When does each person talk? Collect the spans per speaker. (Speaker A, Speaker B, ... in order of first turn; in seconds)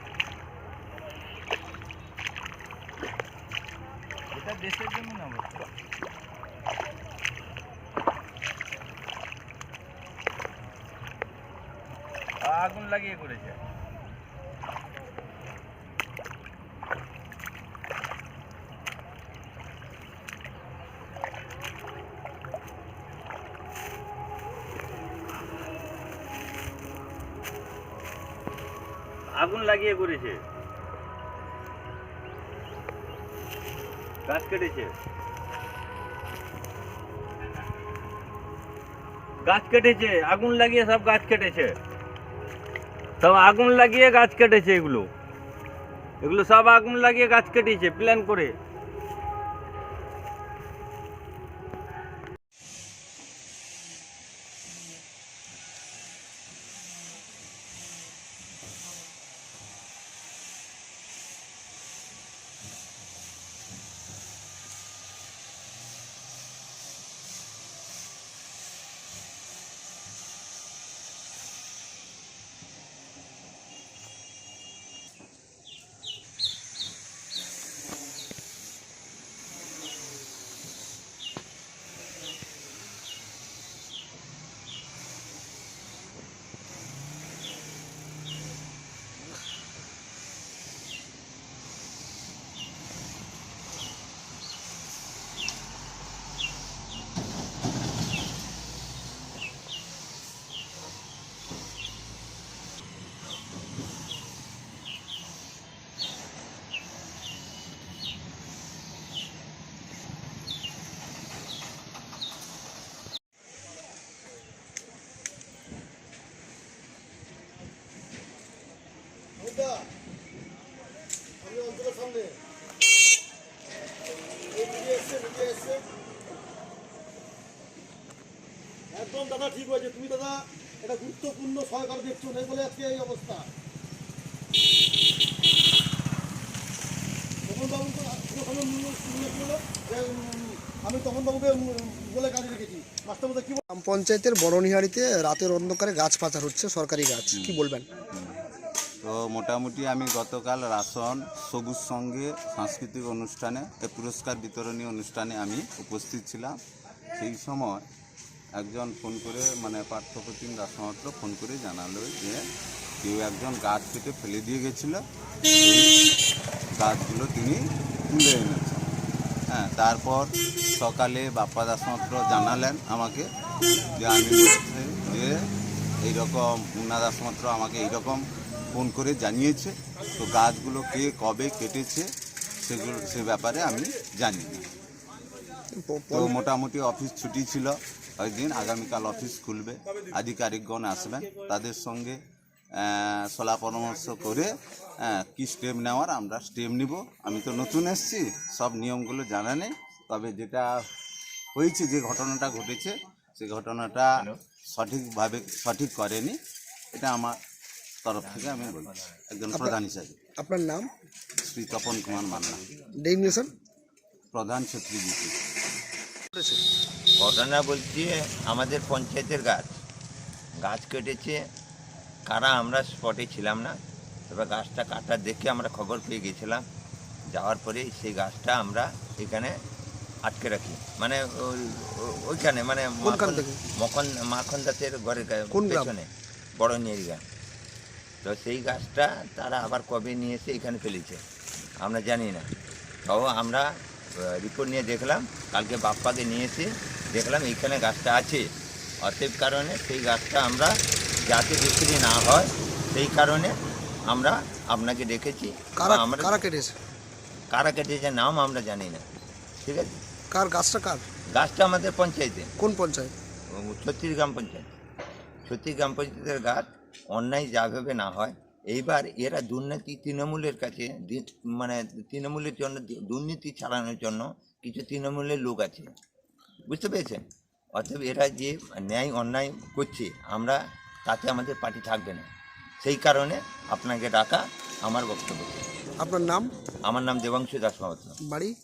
Speaker A: 4.3-5.7, 12.4-13.6, 29.3-30.4, 34.3-34.9, 39.4-41.8, 43.2-45.1, 46.2-48.5
Speaker B: 119.4-119.8, 121.4-122.4, 124.5-125.8, 128.9-133.5, 137.5-143.6
Speaker C: 143.7-147.9, 185.8-186.3, 209.5-209.8, 210.4-210.9, 213.0-213.5, 216.3-216.6, 233.0-233.6, 235.5-235.9, 255.8-256.8, 260.3-261.0, 262.6-263.1, 286.0-286.5, 288.2-288.5
Speaker D: 148.1-148.4, 149.0-156.6, 157.2-157.8, 158.6-162.4, 163.0-165.0, 165.6-165.9, 166.8-168.9, 169.5-173.3, 173.9-175.4, 176.0-182.1, 182.6-184.6, 186.1-192.2, 192.8-200.7, 201.6-204.1, 204.7-206.4, 206.9-207.4, 208.0-210.2, 211.4-212.6, 214.3-215.3
Speaker E: 208.3-209.2, 211.9-212.9, 217.2-219.7, 220.6-221.4, 222.3-223.7, 224.3-226.6, 227.3-229.6, 230.2-237.2, 238.2-241.2, 241.8-242.5, 243.1-248.5, 249.0-253.6, 254.1-256.4, 257.5-259.1, 259.6-260.0, 261.3-262.5, 263.6-264.7, 265.4-275.9, 276.7-277.2, 277.8-282.3, 282.8-285.6, 286.9-288.2